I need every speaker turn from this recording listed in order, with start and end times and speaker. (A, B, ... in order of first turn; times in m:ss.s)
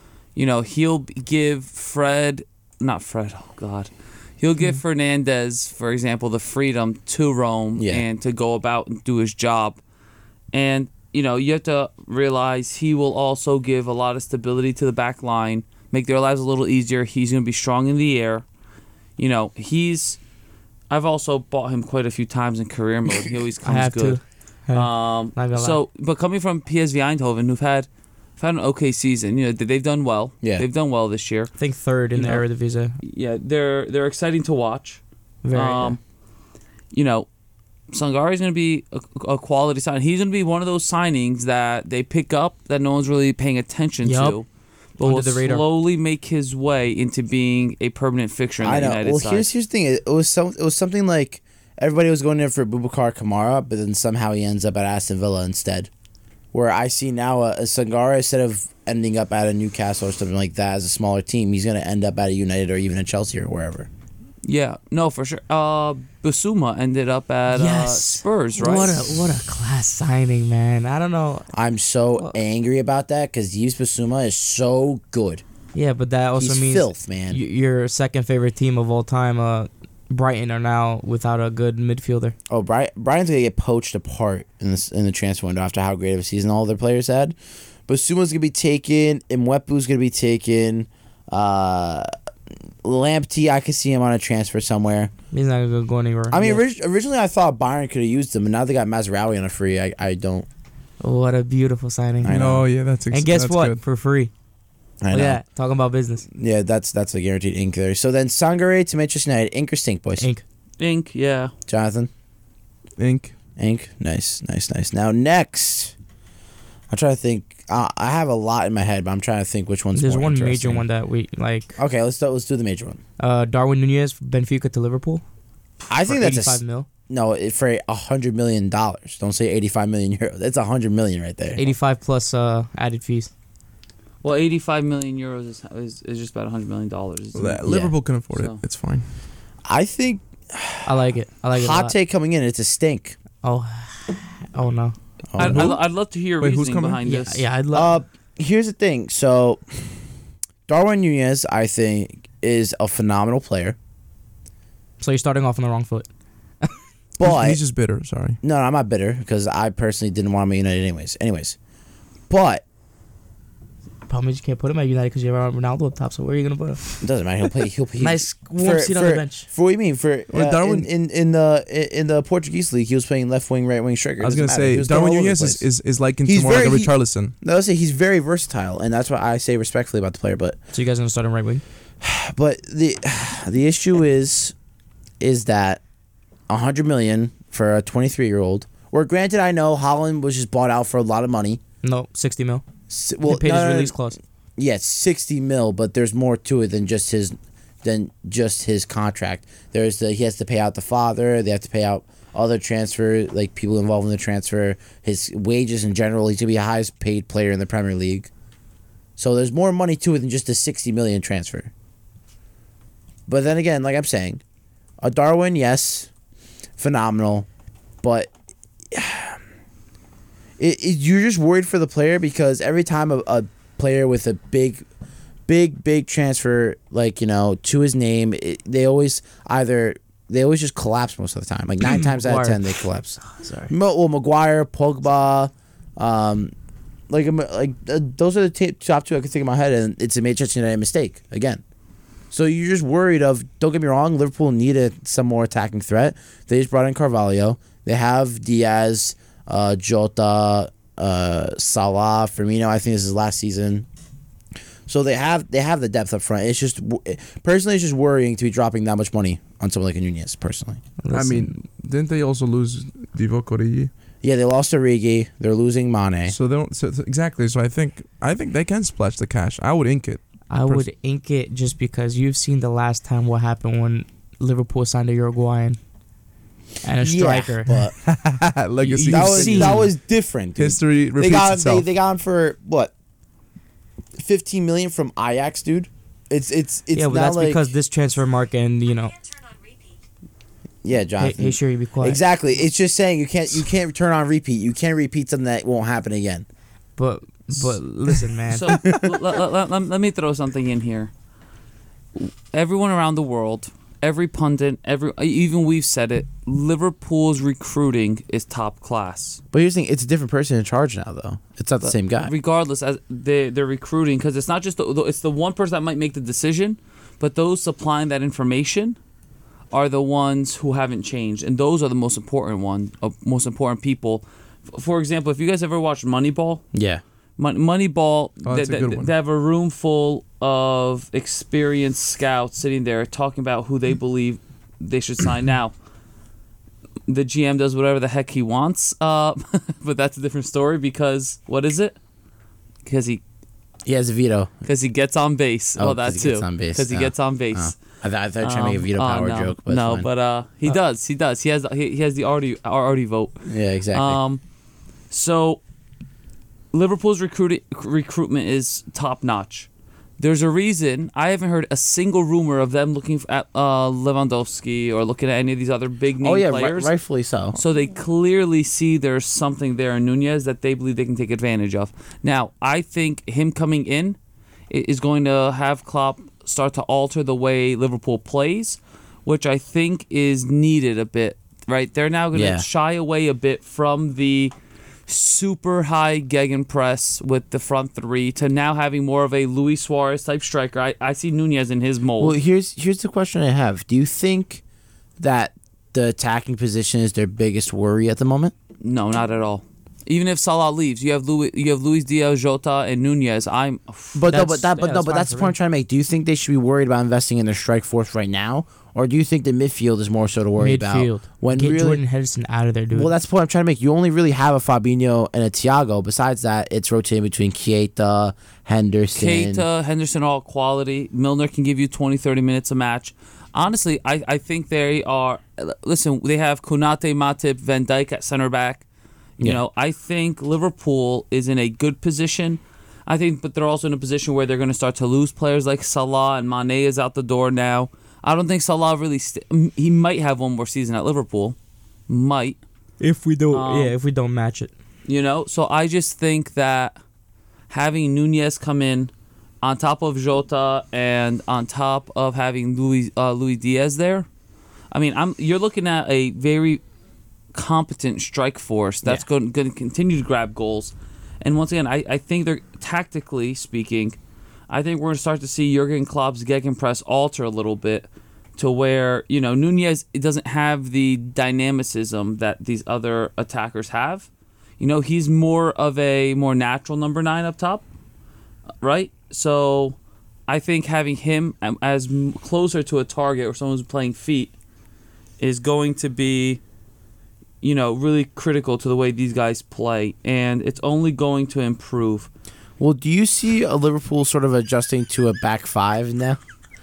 0:00.3-0:09.8 A
0:07.8-0:08.0 B
0:10.5-0:18.4 A
0:19.2-0:20.2 A
0:20.9-0:24.2 A
0:23.6-0:25.8 C
0:24.7-0:31.5 A
0:31.6-0:33.0 C
0:32.1-0:32.4 A
0:33.0-0:35.0 A
0:35.4-0:36.0 C
0:35.5-0:36.0 A
0:36.9-0:37.3 A
0:37.9-0:44.5 A
0:44.0-0:44.4 C
0:45.0-0:49.5 A
0:45.0-0:45.6 C
0:48.6-0:55.9 B
0:56.5-1:03.9 B
1:04.4-1:09.2 A
1:07.5-1:11.5 C
1:11.5-1:15.4 B
1:15.7-1:22.4 C
1:16.4-1:17.4 B
1:22.5-1:27.3 B
1:27.9-1:32.1 B
1:32.8-1:35.1 B
1:35.3-1:36.6 C
1:36.3-1:40.5 B
1:41.0-1:42.4 C
1:42.2-1:42.7 B
1:42.3-1:43.8 D
1:43.1-1:44.3 C
1:45.0-1:45.4 B
1:45.1-1:46.2 C
1:46.3-1:50.3 B
1:50.2-1:50.4 C
1:50.8-1:51.5 A
1:51.7-1:52.1 B
1:53.0-1:53.3 D
1:53.6-1:55.9 B
1:56.9-2:00.8 B
1:59.9-2:01.8 C
2:01.8-2:03.0 B
2:03.2-2:05.2 C
2:05.9-2:11.7 B
2:06.0-2:06.9 C
2:11.6-2:13.3 C
2:14.2-2:17.6 A
2:17.3-2:19.0 D
2:17.6-2:17.9 B
2:18.3-2:18.6 A
2:19.6-2:23.2 B
2:20.8-2:21.9 C
2:23.4-2:25.0 C
2:25.3-2:25.7 B
2:25.4-2:27.4 A
2:25.4-2:25.8 D
2:26.4-2:27.0 D
2:27.0-2:27.9 C
2:27.7-2:29.9 B
2:30.7-2:33.8 B
2:35.0-2:36.1 C
2:37.2-2:37.6 B
2:37.2-2:38.4 D
2:38.4-2:41.6 B
2:42.3-2:42.6 B
2:44.1-2:47.0 C
2:47.0-2:55.6 B
2:48.0-2:49.5 C
2:50.3-2:50.9 D
2:54.2-2:57.3 D
2:56.2-3:00.6 B
3:00.7-3:01.6 C
3:02.0-3:04.5 B
3:05.2-3:05.8 B
3:06.5-3:11.6 B
3:11.8-3:12.6 C
3:12.9-3:14.0 B
3:13.2-3:14.2 C
3:14.6-3:28.3 B
3:29.2-3:31.7 B
3:33.3-3:34.4 B
3:35.0-3:36.1 B
3:36.8-3:37.5 B
3:38.0-3:38.3 B
3:38.9-3:39.4 B
3:40.6-3:44.8 B
3:45.5-3:56.5 B
3:51.8-3:52.6 C
3:53.2-3:53.7 C
3:57.1-4:01.6 B
4:02.3-4:13.8 B
4:14.9-4:20.8 B
4:21.0-4:21.6 C
4:21.1-4:23.9 D
4:24.2-4:26.3 B
4:26.3-4:30.9 D
4:30.5-4:35.8 C
4:36.8-4:37.9 C
4:37.0-4:38.0 B
4:38.0-4:39.9 D
4:38.8-4:39.8 C
4:39.1-4:42.9 B
4:40.6-4:41.8 D
4:44.2-4:47.6 B
4:46.9-4:49.2 C
4:50.8-4:56.4 B
4:51.2-4:52.2 C
4:57.0-4:58.8 C
4:58.5-5:01.1 A
5:02.1-5:09.4 A
5:09.5-5:12.3 B
5:11.8-5:19.0 A
5:19.7-5:26.6 A
5:26.7-5:27.0 B
5:27.4-5:35.7 A
5:28.4-5:29.1 D
5:37.1-5:42.0 A
5:42.8-5:43.2 A
5:43.8-5:44.5 B
5:44.6-5:47.8 A
5:45.8-5:50.1 B
5:48.4-5:54.4 A
5:53.4-5:54.2 B
5:55.1-5:55.6 A
5:56.7-5:59.7 A
6:00.2-6:06.9 A
6:06.2-6:07.6 B
6:07.5-6:14.2 A
6:14.7-6:24.5 A
6:22.3-6:22.6 B
6:25.1-6:32.4 A
6:32.2-6:34.6 B
6:35.2-6:38.5 B
6:38.8-6:44.2 A
6:44.1-6:52.0 B
6:44.3-6:45.5 C
6:50.6-6:53.1 C
6:52.9-6:59.6 B
6:59.1-7:08.8 A
7:09.4-7:21.6 A
7:22.1-7:22.6 A
7:23.0-7:24.7 C
7:23.5-7:23.9 A
7:25.0-7:27.0 A
7:27.7-7:29.1 A
7:29.6-7:34.3 A
7:34.9-7:36.8 A
7:37.5-7:44.2 A
7:44.7-7:54.3 A
7:54.8-7:57.8 A
7:58.8-8:00.0 A
8:00.5-8:04.5 A
8:05.4-8:06.6 A
8:07.6-8:12.3 A
8:12.8-8:16.4 B